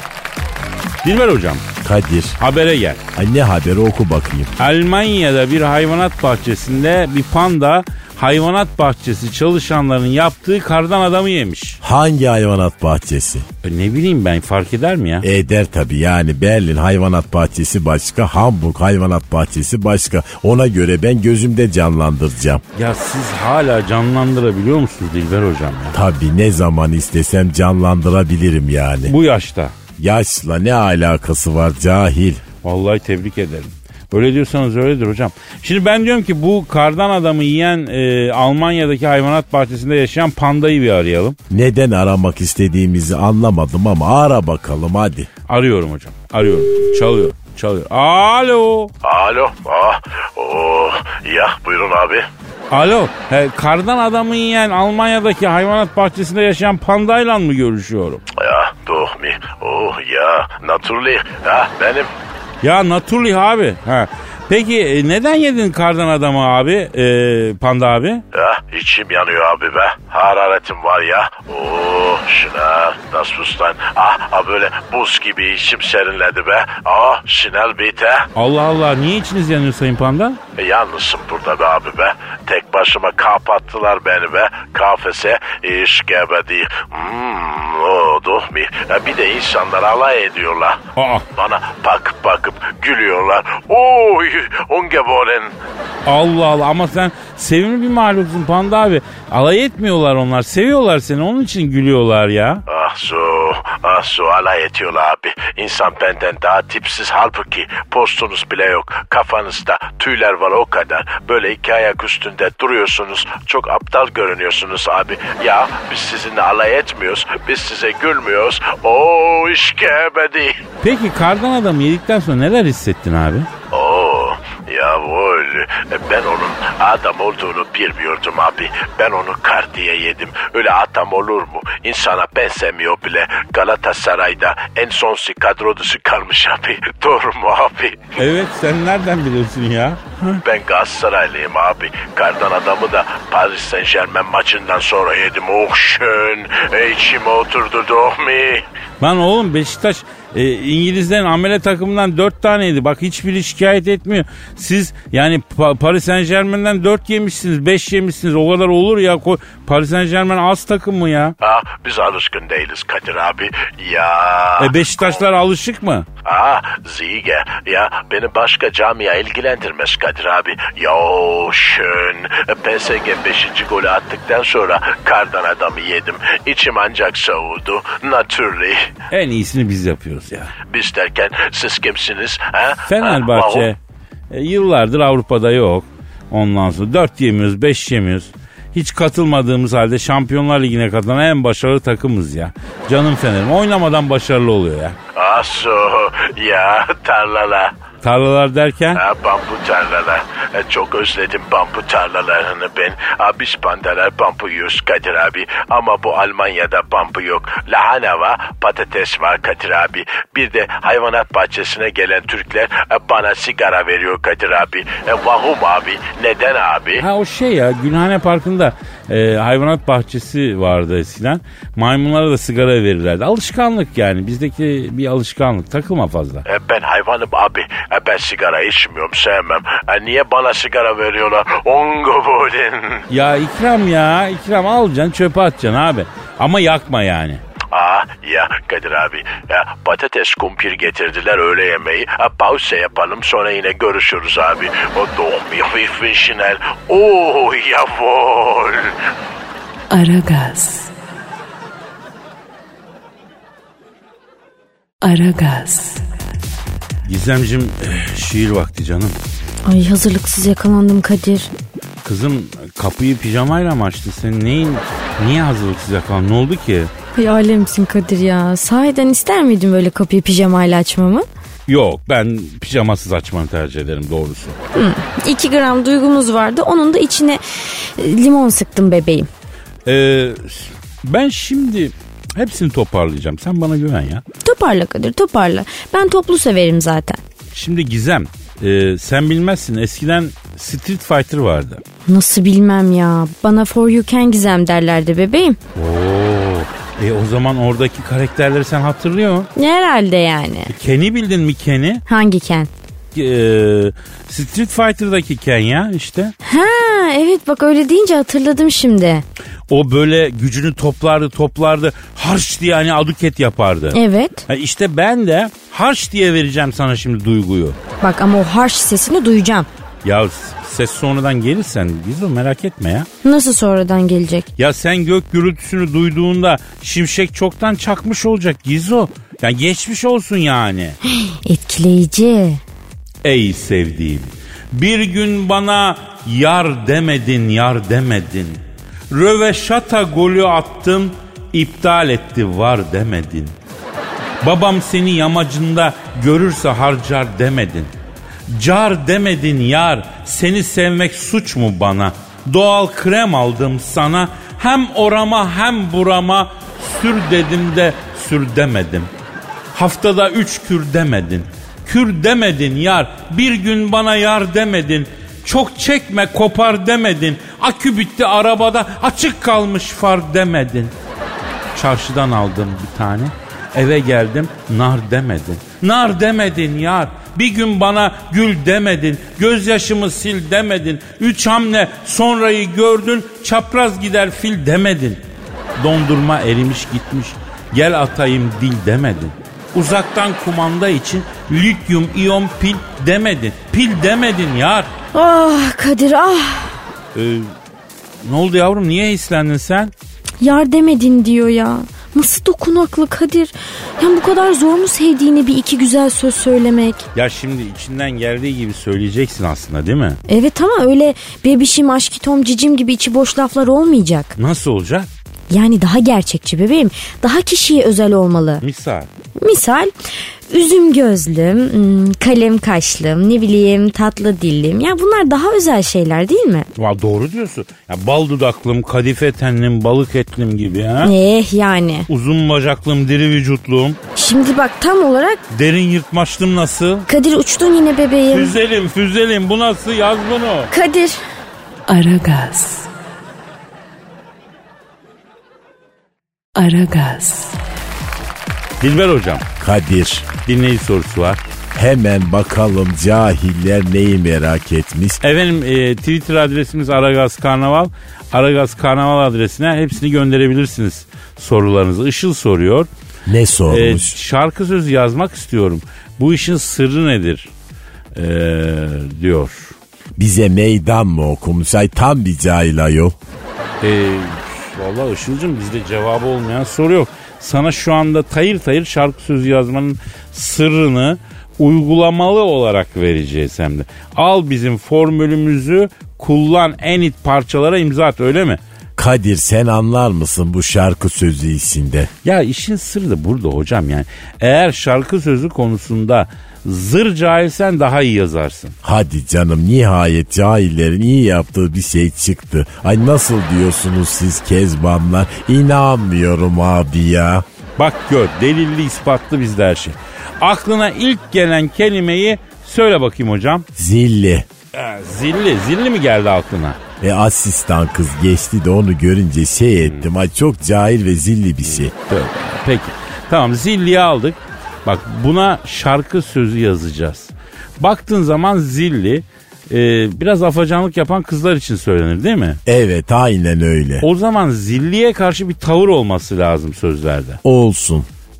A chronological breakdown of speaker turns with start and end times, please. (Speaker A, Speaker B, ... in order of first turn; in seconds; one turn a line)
Speaker A: 1.0-1.6
Speaker B: 1.8-2.4
Speaker A: 2.4-3.0
Speaker B: 3.1-4.5
Speaker A: 4.6-11.8
Speaker B: 11.8-13.5
Speaker A: 13.6-15.3
Speaker B: 15.2-22.6
Speaker A: 22.8-26.0
Speaker B: 25.9-29.1
Speaker A: 29.1-29.8
Speaker B: 30.0-32.4
Speaker A: 32.6-41.4
Speaker B: 41.5-45.3
Speaker A: 45.5-48.9
Speaker C: 49.0-52.3
Speaker A: 52.7-58.2
Speaker C: 58.4-62.1
Speaker A: 62.6-68.2
Speaker C: 68.3-78.3
Speaker A: 78.3-80.4
Speaker C: 80.6-90.8
Speaker A: 91.0-91.3
Speaker C: 91.3-95.5
Speaker A: 96.1-102.6
Speaker C: 102.7-120.6
Speaker A: 120.8-123.5
Speaker C: 123.7-138.2
Speaker A: 138.2-140.4
Speaker C: 140.4-148.7
Speaker A: 149.0-161.3
Speaker C: 161.4-165.2
Speaker A: 164.6-166.1
Speaker C: 166.2-178.9
Speaker A: 179.1-180.5
Speaker C: 180.7-183.7
Speaker A: 182.9-183.8
Speaker A: 184.3-195.0
Speaker C: 195.1-197.7
Speaker A: 198.0-199.0
Speaker C: 198.9-217.1
Speaker A: 217.0-226.5
Speaker C: 226.5-233.1
Speaker A: 233.1-237.4
Speaker C: 237.7-248.9
Speaker D: 249.9-250.9
Speaker D: 255.0-256.0
Speaker A: 257.1-259.2
Speaker E: 259.7-261.5
Speaker A: 262.0-266.9
Speaker E: 267.2-271.3
Speaker A: 271.7-274.6
Speaker E: 274.7-279.3
Speaker A: 279.9-284.2
Speaker E: 284.4-287.2
Speaker A: 287.5-291.8
Speaker E: 292.1-295.6
Speaker A: 295.8-299.5
Speaker E: 299.6-300.7
Speaker A: 300.7-302.0
Speaker E: 302.1-302.7
Speaker A: 303.1-306.3
Speaker E: 306.4-309.2
Speaker A: 309.7-317.8
Speaker E: 313.9-314.4
Speaker E: 318.0-319.7
Speaker A: 320.0-323.1
Speaker E: 323.2-324.5
Speaker A: 324.6-331.0
Speaker E: 331.1-332.6
Speaker A: 333.2-343.5
Speaker A: 344.4-347.9
Speaker A: 348.5-359.1
Speaker A: 359.7-370.9
Speaker A: 371.7-385.2
Speaker A: 385.8-394.9
Speaker E: 395.1-396.8
Speaker A: 397.1-397.6
Speaker A: 398.2-399.9
Speaker E: 400.4-407.1
Speaker A: 407.1-410.2
Speaker E: 410.3-414.4
Speaker A: 414.4-415.1
Speaker E: 415.5-418.6
Speaker A: 418.6-419.1
Speaker E: 419.4-419.9
Speaker E: 420.5-426.7
Speaker A: 426.8-431.1
Speaker E: 431.0-432.1
Speaker A: 432.1-434.0
Speaker E: 434.2-435.4
Speaker A: 435.5-437.1
Speaker E: 437.1-438.6
Speaker A: 438.3-440.7
Speaker E: 440.7-441.2
Speaker D: 441.9-442.9
Speaker D: 446.6-447.6
Speaker A: 448.8-449.5
Speaker B: 449.6-450.3
Speaker A: 450.4-451.4
Speaker B: 451.8-455.2
Speaker A: 455.2-462.9
Speaker B: 463.3-464.1
Speaker A: 463.7-467.5
Speaker A: 468.1-469.8
Speaker B: 470.2-473.1
Speaker A: 473.8-488.6
Speaker B: 489.0-492.1
Speaker A: 492.2-498.8
Speaker B: 498.8-507.4
Speaker A: 507.8-513.7
Speaker B: 513.8-514.5
Speaker A: 514.7-516.8
Speaker B: 517.0-521.9
Speaker A: 521.8-532.6
Speaker B: 532.7-534.1
Speaker A: 534.0-537.4
Speaker B: 537.4-538.1